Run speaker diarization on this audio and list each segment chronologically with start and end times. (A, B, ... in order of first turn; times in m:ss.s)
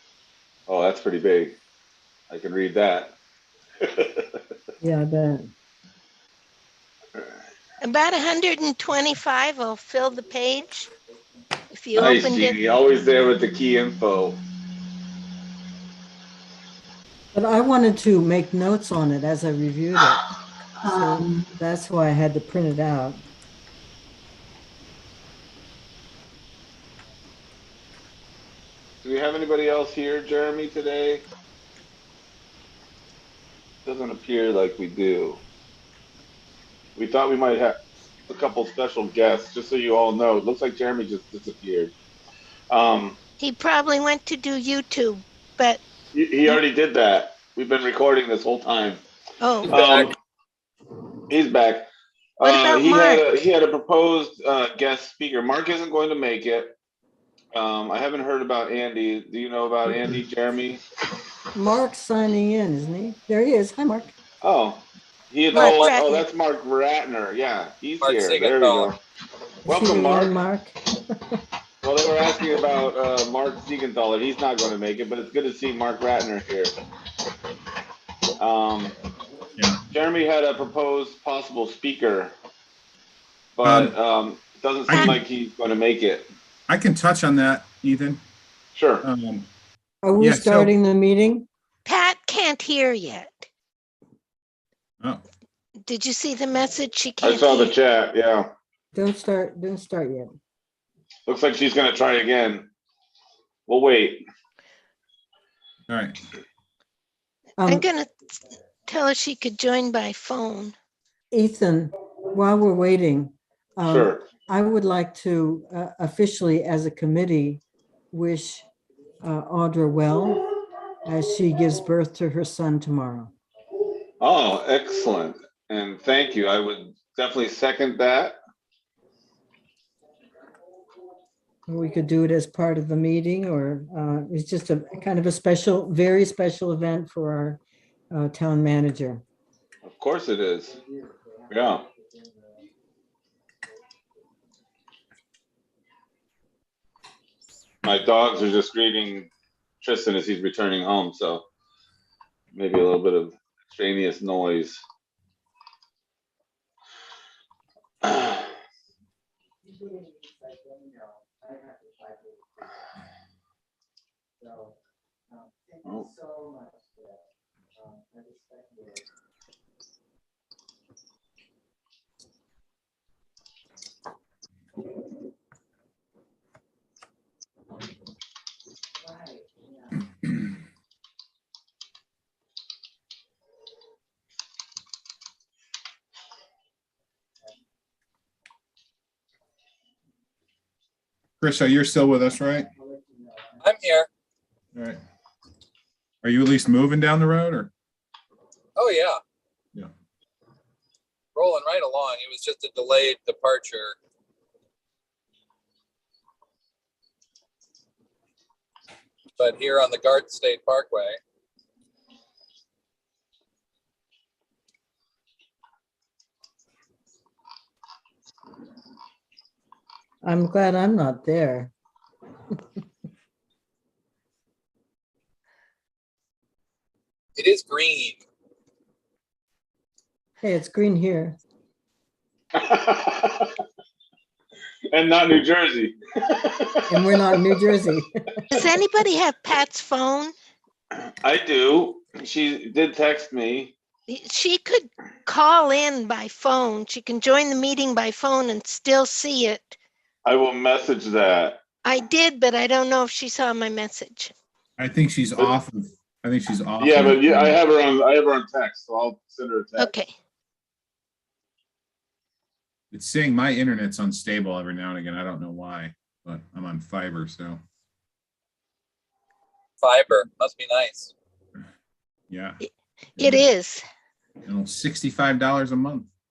0:00.7-0:01.6 A
0:02.3-0:03.1 A
0:03.8-0:04.4 A
0:04.8-0:05.5 B
0:07.8-0:10.9 C
0:11.7-0:12.6 C
0:11.9-0:14.4 A
0:17.3-0:20.2 B
0:20.8-0:23.2 B
0:29.0-0:31.2 A
0:33.8-0:35.4 A
0:37.0-0:37.8 A
0:38.3-0:41.9 A
0:42.7-0:43.2 A
0:43.4-0:45.8 C
0:46.1-0:49.0 A
0:49.4-0:49.7 C
0:49.7-0:50.1 D
0:49.7-0:50.1 A
0:51.3-0:51.9 A
0:52.4-0:56.7 A
0:52.4-0:53.3 C
0:57.5-1:00.8 A
1:01.5-1:04.1 B
1:04.4-1:09.0 A
1:05.5-1:06.2 C
1:05.5-1:05.9 D
1:08.0-1:08.9 D
1:09.7-1:10.4 A
1:09.7-1:10.8 B
1:11.8-1:16.7 A
1:18.4-1:18.9 A
1:19.9-1:22.3 A
1:23.6-1:26.3 A
1:23.6-1:23.9 E
1:24.9-1:25.2 E
1:24.9-1:25.2 C
1:26.7-1:28.2 E
1:28.7-1:29.0 A
1:29.0-1:29.5 E
1:30.0-1:31.5 B
1:30.2-1:30.7 E
1:31.8-1:33.4 C
1:35.8-1:37.8 C
1:37.2-1:38.5 A
1:38.9-1:40.4 B
1:41.3-1:42.7 A
1:43.7-1:44.2 A
1:45.9-1:46.2 E
1:47.6-1:47.8 B
1:47.6-1:48.1 C
1:48.8-1:50.7 C
1:51.3-1:58.6 B
1:53.8-1:54.2 A
1:59.2-2:00.5 B
2:01.0-2:03.3 B
2:04.2-2:08.4 A
2:11.7-2:19.2 B
2:19.8-2:20.8 A
2:21.5-2:21.8 A
2:27.8-2:29.3 A
2:29.8-2:31.4 A
2:32.5-2:34.8 A
2:45.8-2:46.1 A
3:11.4-3:12.7 E
3:13.6-3:14.1 D
3:14.7-3:15.0 E
3:16.2-3:17.7 E
3:18.8-3:19.2 D
3:21.3-3:24.0 D
3:29.4-3:31.2 D
3:40.2-3:41.7 B
3:47.4-3:48.2 D
3:50.4-3:51.4 B
3:52.5-3:53.5 A
3:54.9-3:57.0 A
3:56.9-3:58.1 B
3:58.5-4:00.3 C
4:01.0-4:03.8 A
4:04.1-4:09.8 C
4:10.2-4:11.6 A
4:11.8-4:14.3 C
4:14.8-4:17.6 E
4:16.8-4:19.9 A
4:19.8-4:20.1 C
4:22.9-4:27.6 E
4:29.8-4:31.1 D
4:32.3-4:32.6 E
4:32.6-4:33.8 C
4:33.2-4:33.5 E
4:34.4-4:36.1 E